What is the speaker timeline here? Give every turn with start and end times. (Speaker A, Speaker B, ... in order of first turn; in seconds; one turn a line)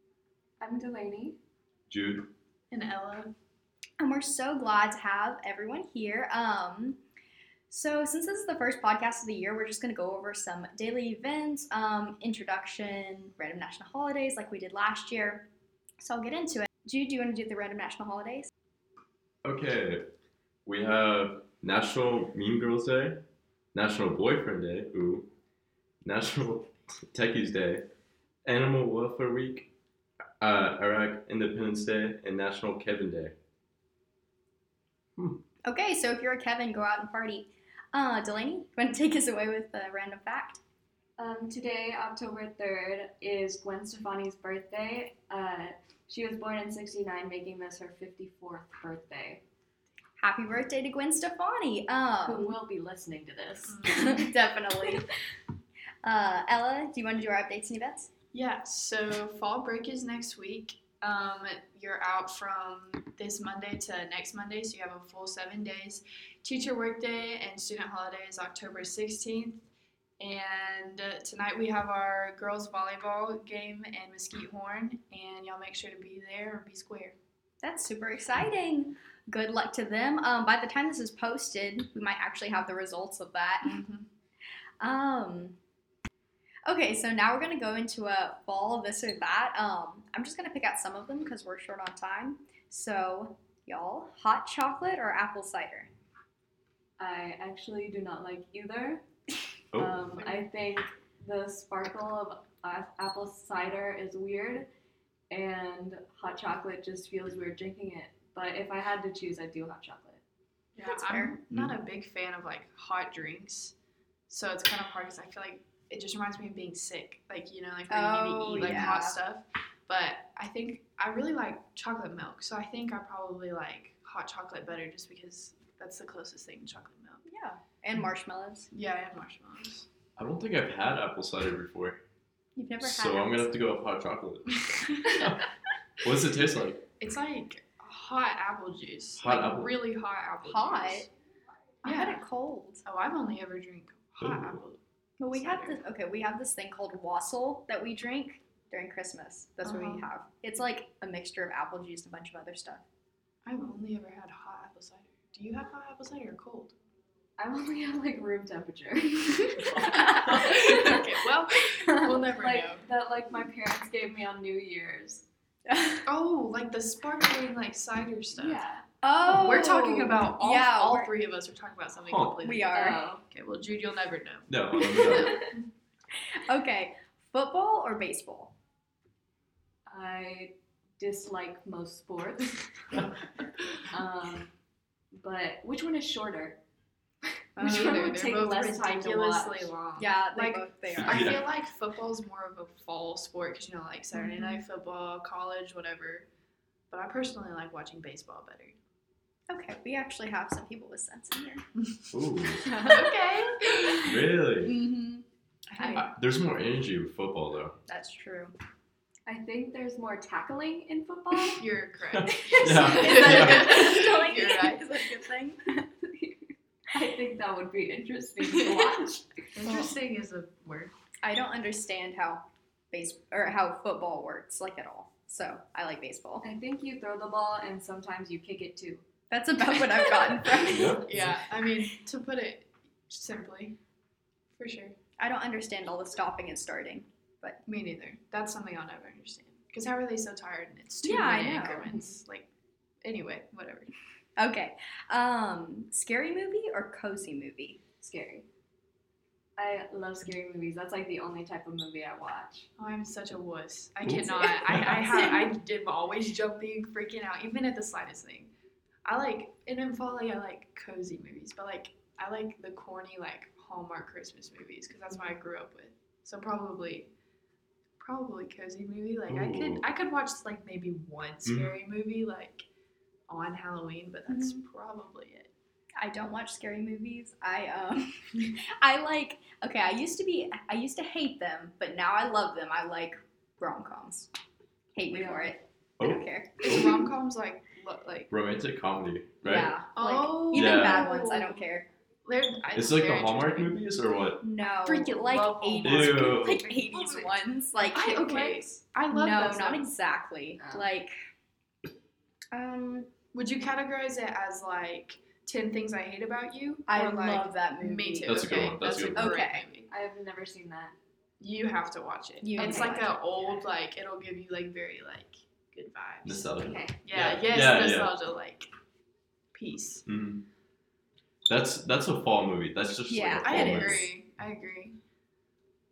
Speaker A: 0.6-1.4
Speaker B: 1.9-2.3
Speaker C: 2.7-3.3
Speaker D: 4.0-7.0
Speaker D: 7.7-15.4
Speaker D: 16.0-18.5
Speaker B: 19.4-20.1
Speaker B: 20.6-23.2
Speaker B: 23.7-25.3
Speaker B: 26.0-27.9
Speaker B: 28.4-29.7
Speaker B: 30.4-33.3
Speaker D: 35.6-40.6
Speaker A: 41.2-49.4
Speaker D: 50.2-52.5
Speaker A: 52.2-54.3
Speaker C: 53.7-54.1
Speaker D: 53.9-55.0
Speaker D: 56.0-58.1
Speaker C: 58.3-69.6
Speaker C: 70.2-77.2
Speaker D: 77.6-83.8
Speaker C: 83.6-84.1
Speaker D: 84.8-85.5
Speaker D: 86.7-95.9
Speaker A: 97.0-99.0
Speaker B: 99.7-100.0
Speaker A: 99.7-104.7
Speaker A: 105.3-110.2
Speaker C: 110.8-113.8
Speaker D: 110.8-111.3
Speaker C: 114.3-127.2
Speaker D: 117.9-119.1
Speaker A: 118.6-119.0
Speaker D: 127.2-128.7
Speaker C: 128.7-129.8
Speaker B: 130.2-132.0
Speaker D: 132.6-133.6
Speaker B: 132.8-135.3
Speaker B: 136.0-136.8
Speaker C: 137.0-141.1
Speaker B: 139.2-139.8
Speaker D: 140.4-141.1
Speaker D: 141.8-142.8
Speaker C: 141.8-142.2
Speaker C: 142.8-145.8
Speaker B: 144.2-144.6
Speaker D: 145.2-152.8
Speaker C: 149.7-150.0
Speaker C: 153.4-156.7
Speaker A: 157.4-161.0
Speaker C: 160.1-162.8
Speaker A: 161.8-165.2
Speaker D: 165.7-166.1
Speaker C: 166.1-168.6
Speaker A: 168.4-168.8
Speaker D: 169.0-171.1
Speaker C: 169.2-175.6
Speaker B: 172.1-172.3
Speaker D: 172.4-173.0
Speaker A: 172.7-173.2
Speaker B: 174.5-175.4
Speaker D: 176.4-178.5
Speaker A: 179.9-183.1
Speaker A: 183.9-184.5
Speaker A: 185.1-186.6
Speaker A: 187.6-189.7
Speaker C: 187.6-196.3
Speaker D: 187.6-187.8
Speaker D: 189.9-191.4
Speaker B: 191.0-191.4
Speaker D: 194.2-194.6
Speaker C: 196.9-198.8
Speaker D: 199.5-201.6
Speaker C: 201.9-204.1
Speaker B: 202.1-202.6
Speaker D: 202.6-204.0
Speaker B: 204.0-204.7
Speaker D: 204.6-205.2
Speaker C: 205.7-206.0
Speaker D: 205.8-206.1
Speaker B: 205.8-207.8
Speaker D: 207.9-208.5
Speaker A: 209.2-211.6
Speaker C: 211.6-214.8
Speaker A: 212.5-213.5
Speaker B: 212.5-213.7
Speaker D: 212.8-215.6
Speaker A: 216.0-216.3
Speaker A: 216.9-219.3
Speaker C: 218.4-218.8
Speaker C: 219.5-220.9
Speaker D: 221.2-226.4
Speaker A: 226.4-229.0
Speaker D: 229.3-231.1
Speaker A: 229.8-230.9
Speaker B: 230.7-231.2
Speaker C: 230.9-233.8
Speaker C: 234.6-235.0
Speaker D: 235.2-237.6
Speaker C: 237.7-242.5
Speaker D: 241.0-241.9
Speaker C: 243.0-243.9
Speaker D: 244.4-247.8
Speaker A: 248.0-248.4
Speaker A: 249.6-252.7
Speaker C: 252.8-258.5
Speaker B: 254.1-255.0
Speaker D: 255.1-255.5
Speaker C: 259.1-267.1
Speaker C: 268.0-272.6
Speaker B: 269.3-269.8
Speaker B: 271.4-271.7
Speaker C: 273.3-275.5
Speaker D: 274.3-274.6
Speaker D: 276.0-284.3
Speaker D: 284.9-287.0
Speaker A: 285.1-285.5
Speaker B: 286.0-286.9
Speaker C: 286.6-288.3
Speaker B: 288.3-289.7
Speaker D: 289.4-291.9
Speaker C: 289.9-291.7
Speaker B: 290.5-291.1
Speaker C: 292.2-293.8
Speaker B: 292.7-294.4
Speaker D: 294.4-301.1
Speaker C: 294.8-299.9
Speaker B: 295.8-296.7
Speaker A: 300.6-300.9
Speaker D: 302.5-303.1
Speaker C: 303.3-309.9
Speaker D: 306.9-309.6
Speaker B: 308.2-309.4
Speaker A: 309.9-310.9
Speaker C: 311.4-318.7
Speaker D: 312.4-313.1
Speaker A: 312.6-312.9
Speaker B: 316.2-318.1
Speaker A: 316.6-316.9
Speaker C: 319.5-320.0
Speaker B: 320.1-320.4
Speaker B: 321.5-324.1
Speaker D: 323.1-324.0
Speaker C: 323.4-324.9